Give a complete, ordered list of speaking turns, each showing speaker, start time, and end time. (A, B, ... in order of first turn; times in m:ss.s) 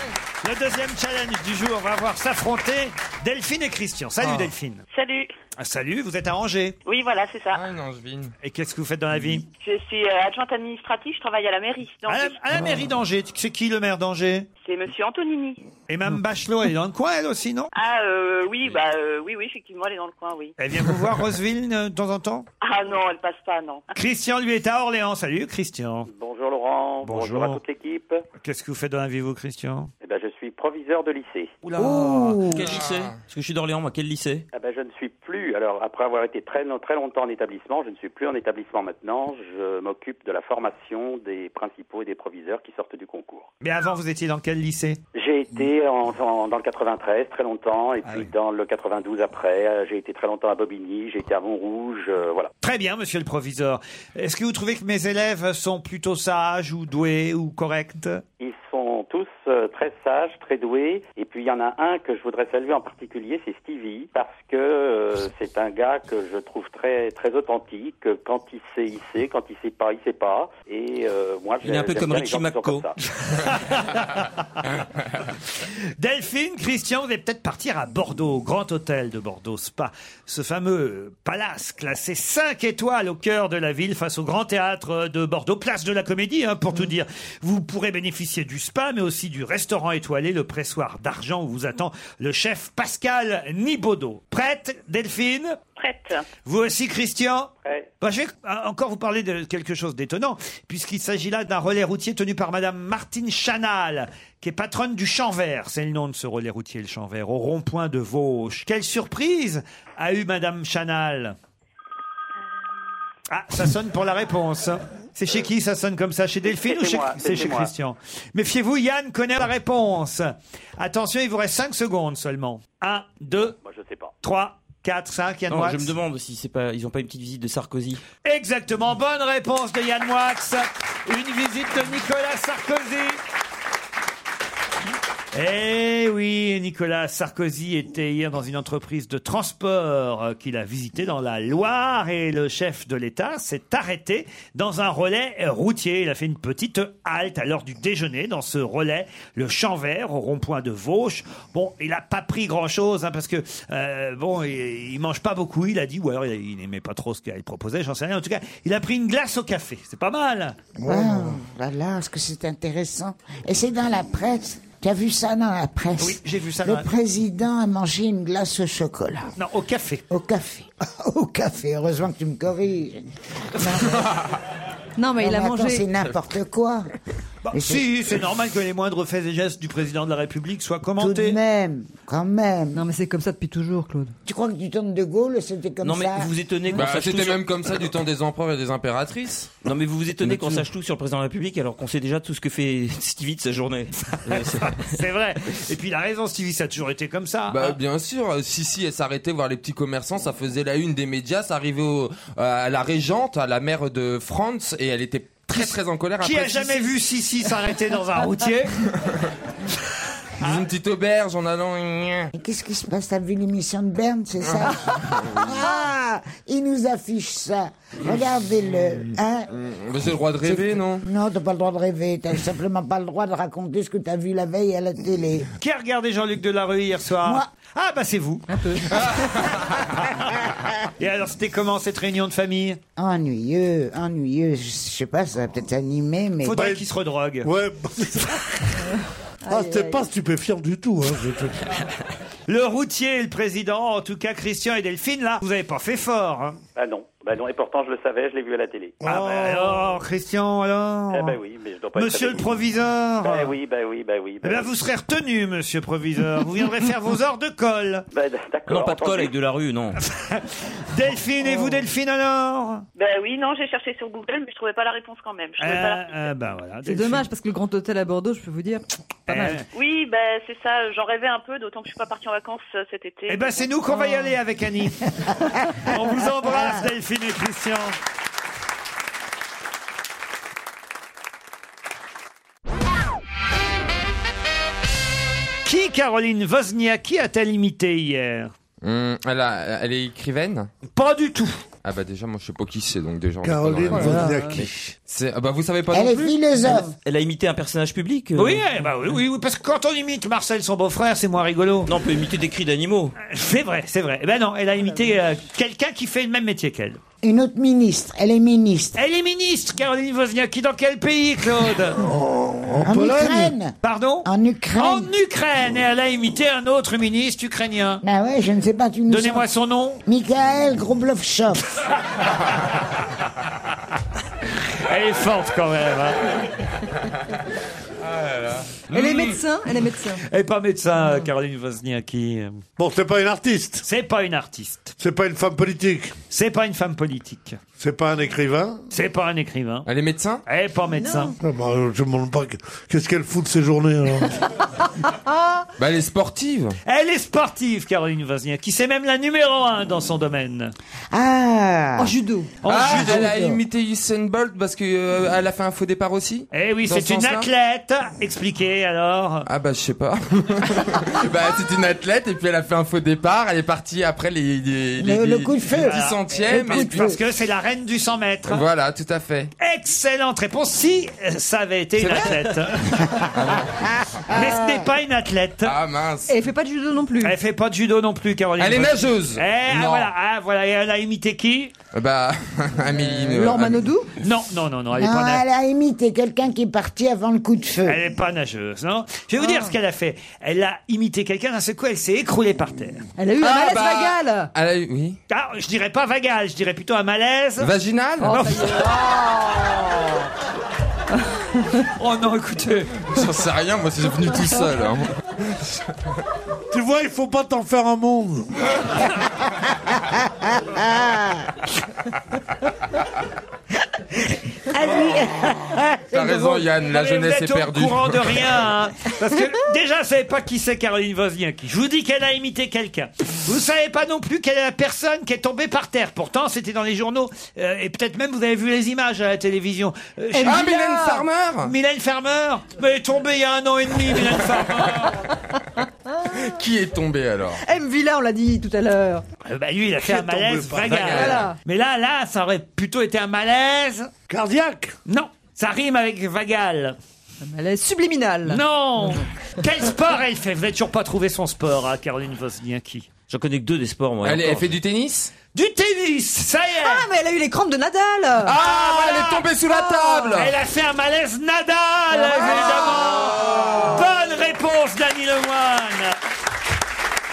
0:00.4-0:04.8 A
0:04.2-0:04.5 B
0:04.9-0:05.3 C
0:05.6-0:06.8 A
0:06.8-0:07.6 C
0:07.5-0:08.3 B
0:08.4-0:09.5 A
0:09.6-0:12.4 C
0:12.0-0:14.5 A
0:14.6-0:15.6 C
0:15.9-0:17.7 A
0:17.7-0:20.5 C
0:20.6-0:22.5 A
0:22.6-0:23.8 C
0:23.9-0:26.1 A
0:26.1-0:28.2 D
0:27.0-0:27.6 A
0:28.4-0:29.9 A
0:30.0-0:31.5 D
0:31.8-0:32.7 E
0:31.8-0:34.4 F
0:32.6-0:33.1 B
0:34.5-0:43.5 D
0:43.6-0:45.0 A
0:45.1-0:52.5 D
0:52.6-0:58.2 A
0:58.4-1:12.9 D
1:11.6-1:12.9 F
1:13.3-1:14.6 A
1:16.0-1:35.6 A
1:35.8-1:36.3 C
1:36.4-1:51.4 A
1:37.6-1:37.9 D
1:53.3-2:03.6 A
1:56.5-1:57.7 D
2:03.6-2:04.1 D
2:04.2-2:05.9 A
2:05.5-2:08.0 F
2:08.2-2:13.2 A
2:15.3-2:40.7 A
2:40.8-2:41.4 G
2:40.8-2:49.3 E
2:46.0-2:46.9 A
2:49.4-2:50.0 A
2:50.1-2:54.1 E
2:55.0-2:55.9 H
2:55.2-2:56.9 E
2:57.4-3:01.4 A
2:57.5-2:57.9 E
3:01.0-3:02.8 E
3:02.7-3:04.1 H
3:04.2-3:06.3 E
3:05.8-3:07.8 F
3:06.7-3:09.5 B
3:09.6-3:14.9 F
3:10.2-3:10.6 B
3:14.7-3:17.8 A
3:17.5-3:26.9 B
3:25.5-3:28.8 A
3:30.4-3:32.3 B
3:32.3-3:39.5 E
3:34.4-3:35.6 B
3:39.5-3:41.0 B
3:40.4-3:45.5 E
3:45.6-3:48.5 A
3:47.2-3:47.5 E
3:51.0-3:52.8 A
3:53.0-3:56.7 E
3:56.4-3:57.5 A
3:56.6-3:56.8 G
3:57.4-3:58.9 G
3:59.4-4:00.1 H
3:59.5-4:01.8 G
4:02.5-4:06.6 A
4:06.8-4:09.2 D
4:09.0-4:09.8 G
4:09.0-4:11.4 A
4:11.1-4:12.5 D
4:11.9-4:13.5 A
4:13.2-4:14.7 D
4:14.4-4:18.0 A
4:18.1-4:19.3 D
4:18.7-4:20.0 F
4:20.0-4:22.8 A
4:22.9-4:26.3 C
4:25.6-4:27.2 A
4:26.8-4:29.6 H
4:29.3-4:29.6 A
4:29.7-4:33.7 C
4:33.3-4:38.0 A
4:45.6-4:48.5 A
4:48.8-4:50.7 B
4:50.9-4:51.6 A
4:51.8-4:56.3 B
4:53.4-4:54.9 G
4:53.9-4:54.6 H
4:55.9-4:56.9 E
4:57.0-4:58.6 F
4:58.4-5:01.9 A
5:01.8-5:03.2 F
5:03.2-5:07.0 A
5:07.2-5:09.0 E
5:09.0-5:12.0 A
5:12.0-5:13.5 G
5:12.8-5:15.1 E
5:13.8-5:18.0 A
5:18.0-5:19.5 E
5:19.1-5:20.0 A
5:20.0-5:21.7 E
5:24.8-5:26.5 A
5:28.1-5:29.4 B
5:28.9-5:30.2 H
5:30.2-5:32.6 A
5:32.8-5:33.8 G
5:33.8-5:34.9 A
5:35.0-5:36.2 G
5:36.3-5:37.6 A
5:37.8-5:38.8 G
5:38.9-5:39.9 A
5:39.8-5:40.4 B
5:40.4-5:41.3 A
5:41.0-5:41.3 H
5:41.4-5:44.4 G
5:45.3-5:45.6 H
5:45.8-5:46.8 B
5:46.8-5:50.7 A
5:51.1-5:52.2 E
5:52.0-5:52.6 H
5:52.6-5:53.3 A
5:52.6-5:57.5 B
5:52.9-5:53.6 E
5:56.5-5:59.5 A
5:59.4-6:07.1 B
6:05.0-6:07.2 E
6:05.8-6:08.6 A
6:08.5-6:09.5 B
6:09.6-6:13.2 A
6:13.3-6:13.9 B
6:14.0-6:14.8 E
6:14.3-6:15.8 A
6:15.6-6:16.3 B
6:16.3-6:17.4 H
6:17.2-6:21.7 A
6:18.6-6:20.1 B
6:21.9-6:23.9 B
6:23.0-6:24.1 H
6:24.2-6:25.4 A
6:25.0-6:28.1 E
6:27.8-6:33.1 A
6:33.2-6:34.5 H
6:33.4-6:35.2 B
6:35.3-6:37.7 A
6:37.6-6:38.4 B
6:38.2-6:39.8 H
6:38.2-6:39.0 A
6:41.9-6:43.0 A
6:43.0-6:45.7 B
6:46.7-6:48.6 G
6:50.3-6:51.5 E
6:54.3-6:56.7 E
6:56.1-6:58.5 B
6:56.8-7:10.8 A
7:10.3-7:11.3 H
7:10.4-7:11.7 B
7:11.6-7:15.2 A
7:16.3-7:17.6 B
7:17.6-7:19.2 H
7:19.4-7:24.1 A
7:20.0-7:21.2 G
7:20.8-7:21.4 B
7:21.1-7:21.6 H
7:24.3-7:25.0 G
7:25.0-7:27.0 A
7:27.4-7:29.2 H
7:28.4-7:33.1 A
7:33.3-7:34.8 F
7:34.2-7:35.3 B
7:35.5-7:37.0 A
7:36.8-7:38.6 H
7:38.4-7:40.5 B
7:38.5-7:39.5 A
7:39.7-7:40.3 H
7:40.3-7:46.2 A
7:42.1-7:43.1 H